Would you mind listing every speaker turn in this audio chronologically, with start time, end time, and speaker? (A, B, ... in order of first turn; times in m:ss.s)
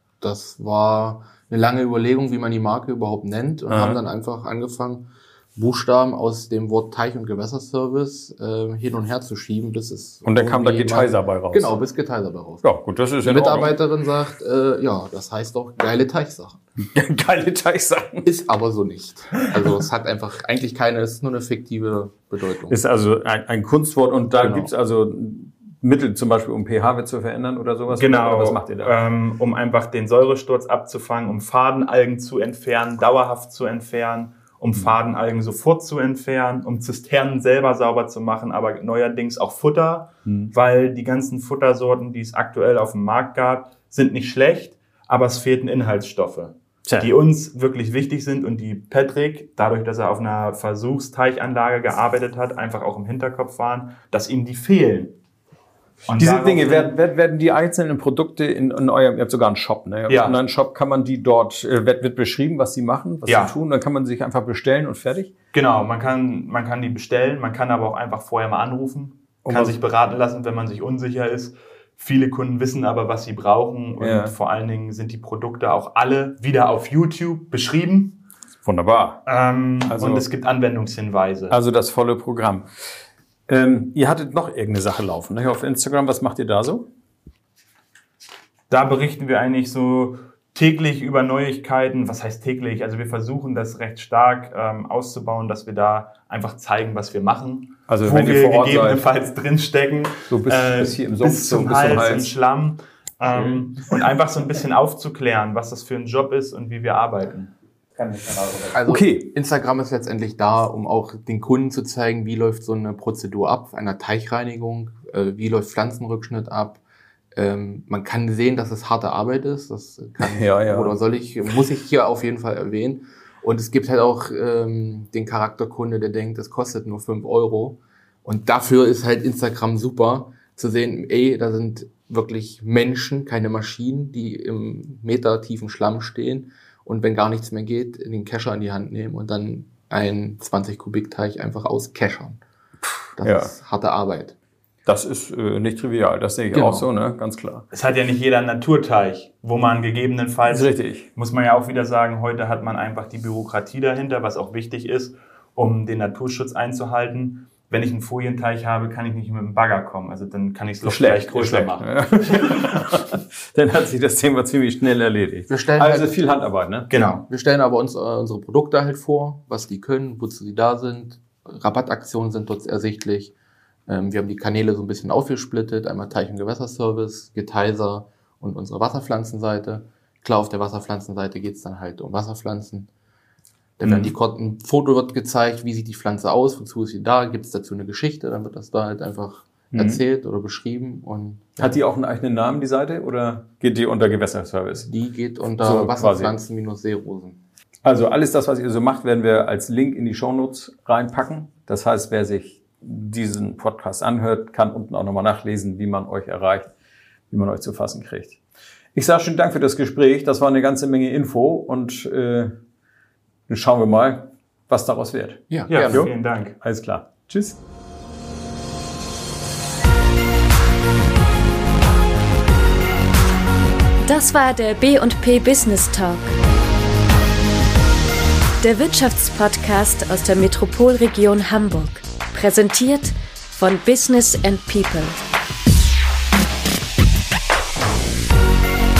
0:00.2-0:12.6 A
0:03.7-0:04.0 B
0:10.2-0:11.7 B
0:12.6-0:13.8 B
0:13.2-0:16.6 A
0:16.8-0:18.3 B
0:18.2-0:22.8 A
0:22.7-0:28.9 B
0:24.4-0:24.7 A
0:27.9-0:55.1 C
0:40.2-0:40.5 B
0:46.8-0:47.1 B
0:56.1-0:56.9 C
0:56.2-1:05.3 B
1:00.1-1:00.3 C
1:03.2-1:03.5 C
1:05.5-1:18.2 C
1:09.4-1:09.8 B
1:14.0-1:14.3 B
1:18.6-1:19.2 B
1:19.2-1:21.5 C
1:19.8-1:20.2 B
1:21.5-1:22.7 B
1:23.5-1:26.8 B
1:28.7-1:47.5 C
1:37.9-1:39.1 B
1:40.3-1:42.3 B
1:43.4-1:43.6 B
1:48.0-1:49.3 B
1:48.7-1:56.8 A
1:57.3-2:22.4 A
2:00.2-2:00.9 B
2:22.8-2:23.5 B
2:23.2-2:24.3 A
2:24.8-2:27.6 B
2:26.5-2:26.9 A
2:27.7-2:41.9 C
2:30.5-2:31.1 B
2:40.8-2:46.9 B
2:45.5-2:46.1 A
2:46.9-2:47.2 C
2:47.3-2:53.3 A
2:53.9-3:02.9 A
3:03.8-3:11.8 A
3:03.8-3:04.1 B
3:09.7-3:10.0 B
3:11.6-3:14.9 B
3:14.8-3:17.4 A
3:15.6-3:16.3 B
3:17.8-3:26.7 B
3:27.3-3:28.4 B
3:28.9-3:32.5 B
3:33.5-3:37.6 B
3:35.5-3:36.1 A
3:35.7-3:36.6 C
3:44.0-3:46.4 D
3:48.6-3:55.2 D